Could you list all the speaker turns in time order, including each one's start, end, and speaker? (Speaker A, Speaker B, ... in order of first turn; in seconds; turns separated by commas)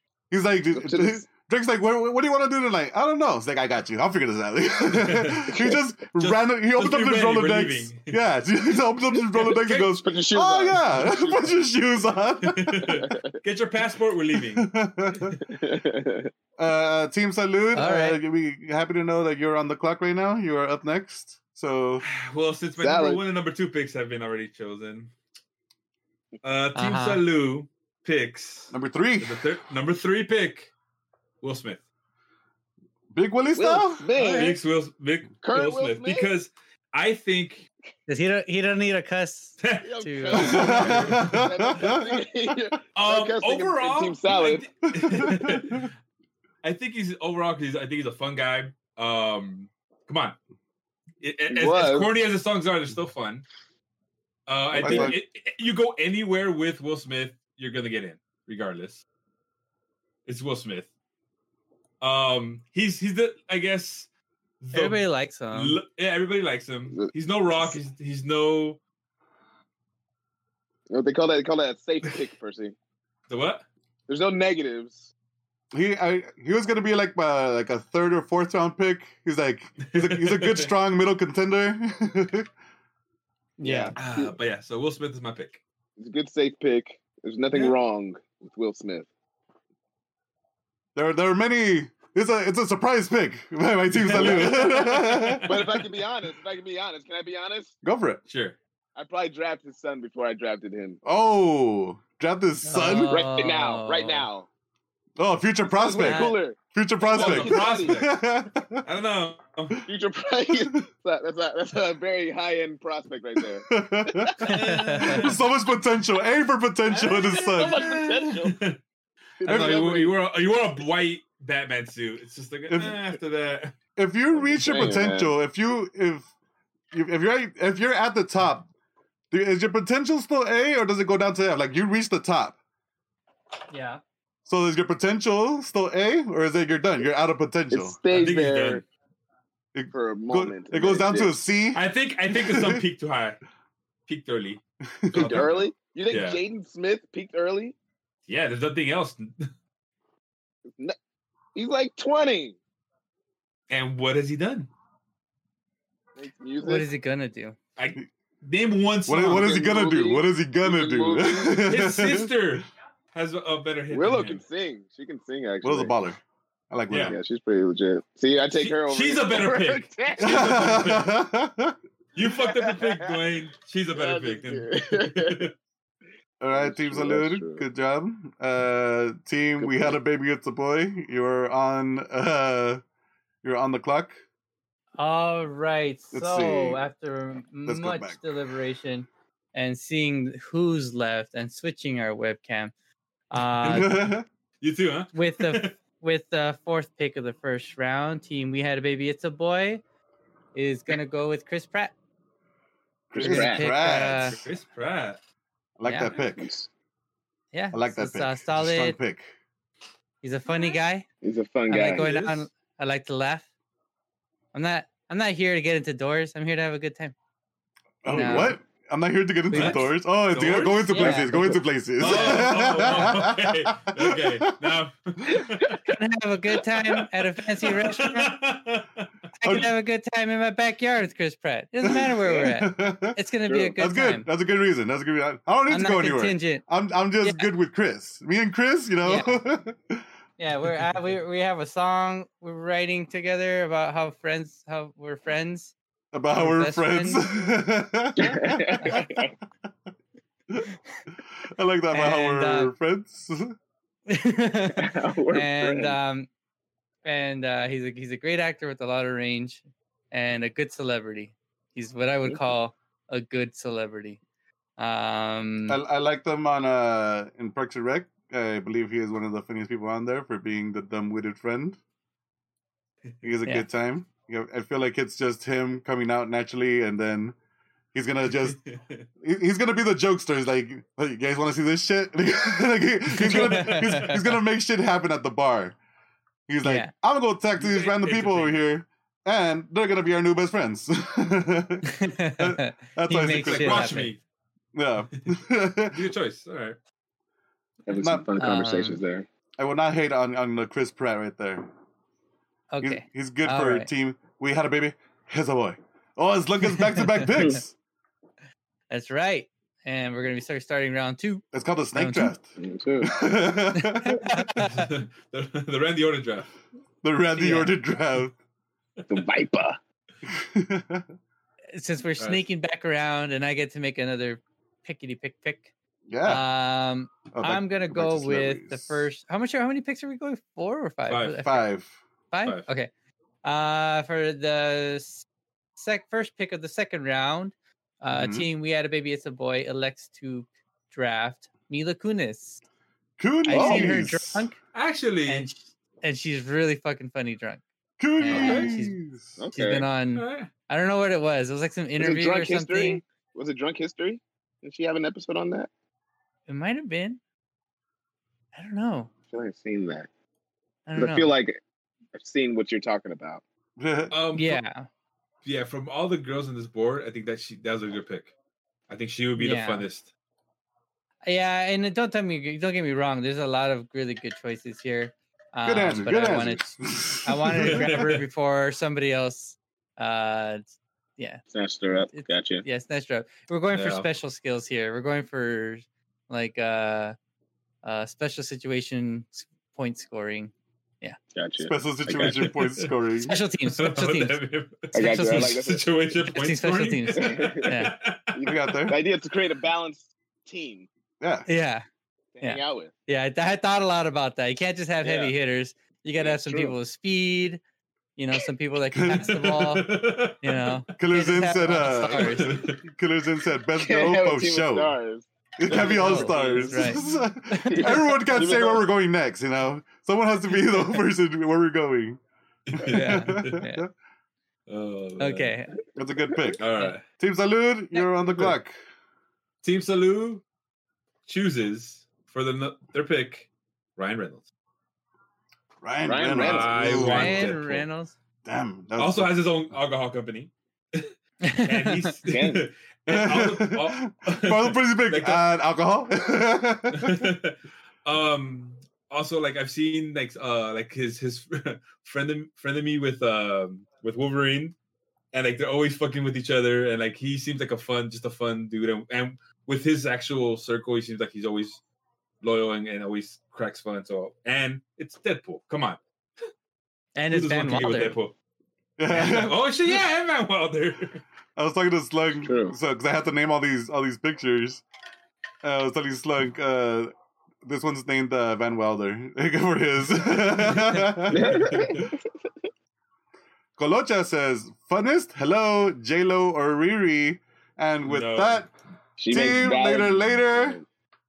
Speaker A: 0.3-13.0, Speaker B: 0.7-1.2, Speaker C: 4.9-5.5, Speaker B: 5.5-5.8, Speaker C: 6.2-8.2, Speaker B: 9.5-11.6, Speaker C: 12.4-14.7, Speaker B: 13.0-13.3, Speaker A: 14.5-15.4, Speaker B: 15.4-16.3, Speaker A: 16.6-22.1, Speaker D: 17.8-18.2, Speaker C: 22.0-25.1, Speaker B: 22.8-23.2, Speaker C: 26.4-30.7, Speaker D: 26.8-27.2, Speaker A: 28.7-29.4, Speaker C: 31.4-31.8, Speaker A: 33.1-34.1, Speaker B: 33.5-34.6, Speaker C: 34.2-37.7, Speaker B: 35.4-36.3, Speaker D: 38.1-40.7, Speaker C: 39.6-41.5, Speaker B: 39.8-44.7, Speaker A: 40.4-42.1, Speaker C: 43.0-45.9, Speaker A: 44.9-45.9, Speaker C: 46.6-50.4, Speaker C: 51.2-53.5, Speaker B: 51.5-52.1, Speaker C: 54.5-59.0, Speaker B: 54.7-55.2, Speaker A: 54.7-55.2, Speaker C: 60.3-60.9, Speaker C: 62.0-64.1, Speaker C: 64.6-68.8, Speaker D: 64.7-65.8, Speaker B: 66.9-67.8, Speaker B: 70.9-72.8, Speaker C: 73.3-73.7, Speaker B: 74.1-75.1, Speaker A: 75.7-82.5, Speaker C: 79.9-80.7, Speaker D: 83.6-84.0, Speaker B: 83.6-84.3, Speaker C: 84.0-85.6, Speaker B: 86.0-89.1, Speaker A: 91.0-95.5, Speaker C: 93.9-95.8, Speaker B: 94.1-94.8, Speaker B: 95.4-97.8, Speaker A: 97.8-98.2, Speaker C: 98.3-98.6, Speaker B: 99.0-101.0, Speaker A: 101.0-103.1, Speaker D: 102.6-104.3, Speaker B: 102.8-104.5, Speaker A: 105.2-108.9, Speaker B: 105.7-108.0, Speaker D: 106.0-106.4, Speaker C: 107.1-108.1, Speaker C: 108.8-109.8, Speaker B: 109.9-114.4, Speaker A: 110.5-110.8, Speaker A: 113.7-114.4, Speaker C: 114.4-115.4, Speaker D: 114.5-115.3, Speaker A: 115.0-117.9, Speaker B: 116.9-118.5, Speaker C: 117.1-118.8, Speaker B: 119.4-120.2, Speaker C: 119.4-123.8, Speaker A: 119.5-119.8, Speaker A: 122.7-123.0, Speaker A: 124.0-126.3, Speaker B: 124.4-125.3, Speaker A: 126.9-128.7, Speaker A: 129.3-132.6, Speaker D: 133.7-134.0, Speaker A: 134.5-138.0, Speaker B: 137.7-138.8, Speaker C: 138.1-138.8, Speaker A: 139.8-142.8, Speaker B: 139.9-141.3, Speaker C: 141.7-143.4, Speaker C: 144.1-144.6, Speaker A: 144.9-145.5, Speaker B: 145.1-147.8, Speaker C: 145.1-146.4, Speaker C: 148.3-149.5, Speaker B: 150.7-150.9, Speaker B: 151.6-152.6, Speaker C: 153.7-154.7, Speaker B: 156.2-156.9, Speaker D: 156.6-157.6, Speaker C: 157.8-159.5, Speaker A: 159.1-162.3, Speaker B: 159.2-161.6, Speaker C: 161.6-164.4, Speaker B: 163.9-165.9, Speaker A: 165.6-166.2, Speaker A: 166.7-167.2, Speaker C: 166.9-167.2, Speaker B: 167.0-170.8, Speaker C: 168.6-171.1, Speaker A: 170.2-171.8, Speaker C: 172.2-175.5, Speaker B: 172.3-173.2, Speaker B: 173.9-175.5, Speaker A: 176.4-182.8, Speaker B: 176.5-177.6, Speaker B: 179.6-180.0, Speaker A: 183.4-184.2, Speaker D: 185.0-192.7, Speaker A: 186.1-186.8, Speaker A: 187.6-188.3, Speaker D: 193.3-194.0, Speaker A: 193.7-194.2, Speaker C: 194.6-195.7, Speaker D: 195.1-199.8, Speaker D: 200.6-201.9, Speaker A: 203.1-204.4, Speaker B: 203.1-203.7, Speaker D: 203.2-204.4, Speaker C: 204.2-205.2, Speaker A: 205.8-206.5, Speaker D: 205.8-206.1, Speaker B: 206.1-206.7, Speaker D: 207.5-209.0, Speaker A: 207.7-209.3, Speaker D: 210.2-211.1, Speaker B: 211.2-212.1, Speaker D: 211.7-213.5, Speaker C: 212.0-212.4, Speaker D: 214.5-217.1, Speaker A: 218.0-224.5, Speaker D: 218.1-218.6, Speaker B: 218.1-218.5, Speaker D: 219.5-219.9, Speaker C: 219.5-221.2, Speaker D: 220.9-221.5, Speaker B: 221.0-221.6, Speaker C: 222.0-225.8, Speaker B: 225.3-225.9, Speaker D: 225.9-228.4, Speaker C: 227.6-229.1, Speaker D: 229.4-234.3, Speaker A: 229.4-229.7, Speaker A: 231.8-233.2, Speaker B: 233.5-233.7, Speaker A: 233.8-240.1, Speaker D: 235.7-236.6, Speaker D: 239.0-239.4, Speaker D: 240.4-245.7, Speaker A: 246.1-249.1, Speaker D: 246.3-247.2, Speaker B: 248.2-249.3, Speaker A: 251.5-253.5, Speaker D: 251.9-252.7, Speaker D: 254.1-256.3, Speaker B: 254.7-256.0, Speaker D: 257.1-264.2, Speaker D: 264.8-265.8, Speaker A: 265.7-271.8, Speaker A: 273.2-277.4, Speaker A: 277.9-278.6, Speaker C: 278.4-279.1, Speaker A: 279.2-285.8, Speaker D: 283.2-284.2, Speaker C: 283.3-284.1, Speaker A: 286.5-294.0, Speaker D: 286.6-286.9, Speaker C: 287.6-288.6, Speaker D: 291.9-294.1, Speaker C: 293.3-294.2, Speaker A: 294.7-296.1, Speaker C: 295.9-296.8, Speaker B: 297.9-299.3, Speaker A: 297.9-298.3, Speaker D: 298.4-299.0, Speaker A: 299.6-301.7, Speaker D: 302.7-303.9, Speaker A: 302.8-307.7, Speaker D: 306.6-307.6, Speaker D: 308.9-312.3, Speaker A: 311.5-312.5, Speaker B: 312.6-313.3, Speaker A: 313.0-314.2, Speaker D: 313.7-314.9, Speaker C: 314.6-316.5, Speaker A: 317.0-318.4, Speaker D: 317.4-317.7, Speaker B: 319.1-319.8, Speaker A: 320.2-321.1, Speaker D: 321.7-325.7, Speaker C: 322.2-322.5, Speaker A: 326.1-326.4, Speaker D: 326.2-331.6, Speaker A: 327.3-329.1, Speaker C: 331.1-331.4, Speaker A: 331.4-331.9, Speaker D: 332.3-332.9, Speaker D: 333.4-335.3, Speaker D: 335.8-342.6, Speaker A: 338.1-338.5, Speaker A: 343.2-344.5, Speaker D: 343.4-344.6, Speaker B: 343.5-343.8, Speaker C: 344.7-345.5, Speaker D: 345.3-347.6, Speaker A: 348.0-349.4, Speaker D: 348.2-349.0, Speaker C: 348.3-348.7, Speaker B: 349.4-349.9, Speaker D: 349.5-353.0, Speaker C: 350.1-350.5, Speaker B: 352.0-355.7, Speaker D: 356.5-357.2, Speaker D: 358.5-359.1, Speaker B: 359.3-360.1, Speaker D: 360.9-361.3, Speaker B: 361.0-361.6, Speaker B: 362.1-363.4, Speaker A: 363.8-364.1, Speaker C: 364.1-364.6, Speaker D: 364.3-364.9, Speaker C: 365.4-368.3, Speaker C: 368.9-370.1, Speaker D: 369.4-369.9, Speaker D: 371.2-380.6, Speaker A: 375.6-378.1, Speaker C: 377.6-378.2, Speaker D: 381.2-381.4, Speaker B: 381.5-382.6, Speaker D: 382.0-387.2, Speaker C: 383.7-384.1, Speaker D: 387.8-391.2, Speaker B: 391.4-392.5, Speaker A: 391.6-393.4, Speaker C: 392.2-392.9, Speaker D: 393.2-394.4, Speaker C: 393.6-398.8, Speaker D: 394.9-395.7, Speaker B: 394.9-395.9, Speaker D: 396.3-397.9, Speaker B: 397.2-397.7, Speaker B: 398.3-400.9, Speaker A: 398.4-399.0, Speaker A: 401.2-401.5, Speaker D: 401.5-401.9, Speaker B: 402.4-402.9, Speaker D: 402.4-407.6, Speaker B: 405.0-405.3, Speaker B: 406.2-406.8, Speaker D: 408.2-412.6, Speaker A: 408.9-409.3, Speaker C: 409.3-410.8, Speaker A: 411.0-414.9, Speaker C: 412.1-412.8, Speaker B: 413.8-417.1, Speaker A: 415.6-422.2, Speaker D: 415.7-418.0, Speaker B: 417.7-418.8, Speaker C: 422.7-423.6, Speaker A: 422.9-423.9, Speaker D: 422.9-423.9, Speaker C: 424.7-425.5, Speaker D: 425.2-425.7, Speaker A: 426.0-428.8, Speaker B: 426.3-426.6, Speaker C: 426.6-427.1, Speaker C: 429.6-430.4, Speaker C: 431.3-434.5, Speaker A: 435.8-437.5, Speaker B: 436.1-437.1, Speaker C: 436.4-437.9, Speaker D: 436.9-438.1, Speaker A: 438.5-439.3, Speaker C: 439.0-445.4, Speaker D: 441.4-442.1, Speaker B: 442.3-442.6, Speaker A: 443.1-447.3, Speaker C: 446.9-454.8, Speaker C: 455.3-461.8, Speaker C: 462.4-466.0, Speaker D: 467.1-468.2, Speaker C: 467.3-468.3, Speaker A: 469.0-469.6, Speaker C: 469.1-471.2, Speaker A: 471.6-474.8, Speaker B: 472.4-472.8, Speaker A: 475.6-477.1, Speaker A: 477.6-481.5, Speaker C: 480.7-482.1, Speaker B: 481.3-482.2, Speaker A: 483.8-488.7, Speaker C: 488.0-488.7, Speaker B: 489.2-490.9, Speaker A: 489.3-490.8